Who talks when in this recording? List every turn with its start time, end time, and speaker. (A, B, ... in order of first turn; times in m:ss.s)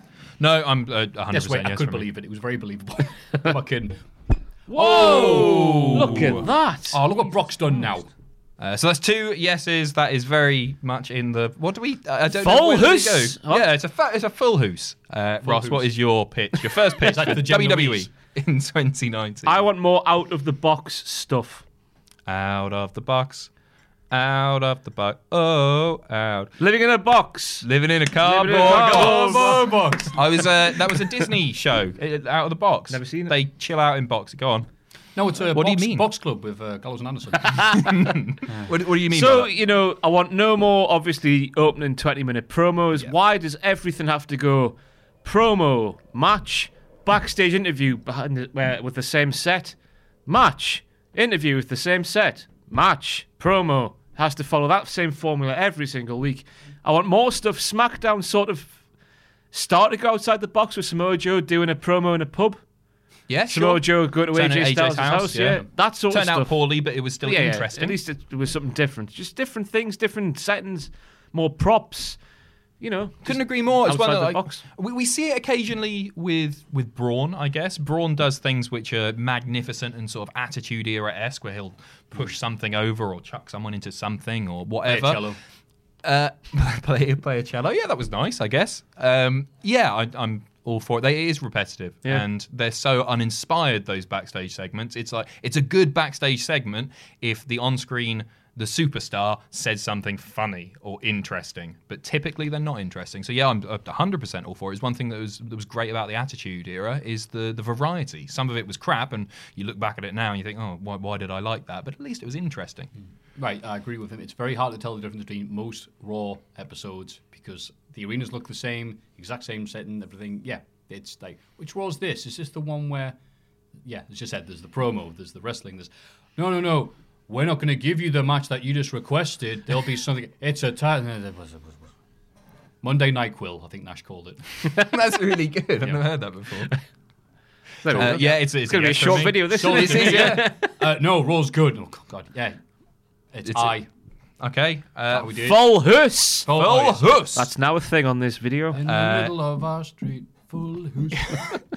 0:00.4-0:02.1 A
0:01.3-0:04.0 B
0:04.7-0:07.0 C
0:04.7-0:06.3 B
0:04.8-0:06.5 A
0:06.9-0:08.1 B
0:08.6-0:19.7 A
0:12.3-0:13.7 C
0:15.4-0:15.9 B
0:17.0-0:18.1 B
0:19.5-0:21.6 C
0:22.3-0:23.5 A
0:24.1-0:26.5 A
0:26.6-0:27.7 C
0:27.6-0:34.7 A
0:28.2-0:29.8 C
0:28.4-0:30.5 B
0:32.9-0:33.3 C
0:35.2-0:37.6 B
0:35.5-0:36.1 A
0:37.4-0:37.8 C
0:37.7-0:39.5 A
0:39.1-0:49.8 C
0:50.3-0:58.8 C
0:59.5-1:02.6 C
1:03.3-1:08.0 A
1:03.5-1:06.6 C
1:07.2-1:12.2 C
1:12.8-1:14.6 C
1:13.2-1:25.4 A
1:24.8-1:25.4 B
1:26.0-1:52.9 A
1:53.4-2:03.2 B
2:03.8-2:11.8 B
2:12.8-2:14.4 B
2:14.7-2:16.7 A
2:17.8-2:20.8 C
2:17.9-2:20.5 A
2:19.5-2:22.6 B
2:23.3-2:23.9 B
2:23.5-2:23.8 A
2:24.4-2:25.4 A
2:25.1-2:25.8 B
2:25.4-2:26.5 C
2:26.5-2:27.3 B
2:26.5-2:27.5 A
2:27.4-2:28.8 C
2:28.7-2:31.4 B
2:28.8-2:29.4 A
2:31.3-2:31.6 A